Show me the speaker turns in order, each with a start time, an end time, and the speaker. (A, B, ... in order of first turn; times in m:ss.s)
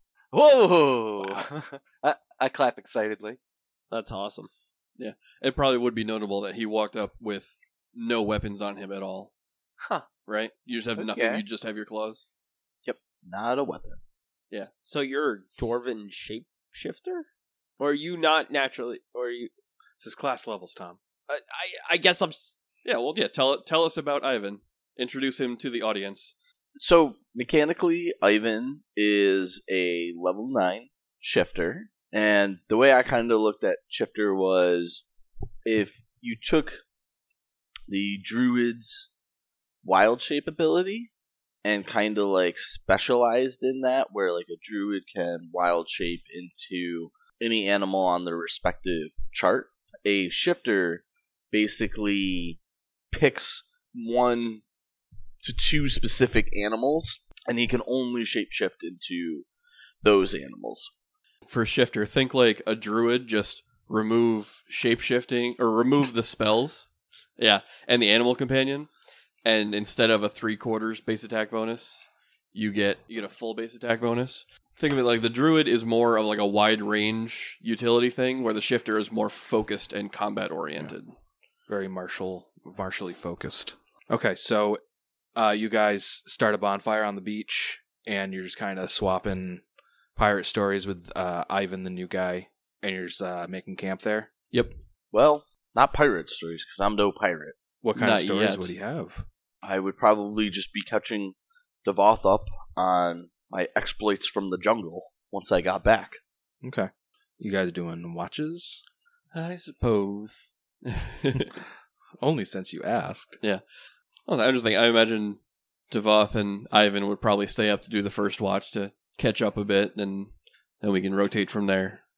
0:00.3-0:03.4 A
0:03.9-0:04.5 B
0:05.0-0:09.3 C
0:10.3-0:12.2 C
0:11.0-0:11.4 A
0:12.8-0:14.0 D
0:14.8-0:17.3 B
0:17.8-0:19.5 B
0:20.0-0:21.0 E
0:21.3-0:22.6 B
0:22.8-0:26.3 C
0:26.8-0:35.0 D
0:35.6-0:36.8 D
0:37.9-0:39.1 D
0:39.8-0:41.1 D
0:41.6-0:52.6 D
0:53.1-0:54.6 D
0:55.4-0:59.5 D
1:00.0-1:00.9 D
1:01.5-1:06.9 C
1:07.4-1:08.9 C
1:09.4-1:21.1 C
1:21.7-1:24.8 E
1:25.4-1:29.6 E
1:30.2-1:34.3 E
1:35.1-1:37.6 D
1:37.8-1:39.2 E
1:38.0-1:38.7 C
1:39.6-1:46.2 D
1:46.6-1:48.8 E
1:49.3-1:51.6 C
1:52.2-1:53.4 E
1:54.3-2:02.0 C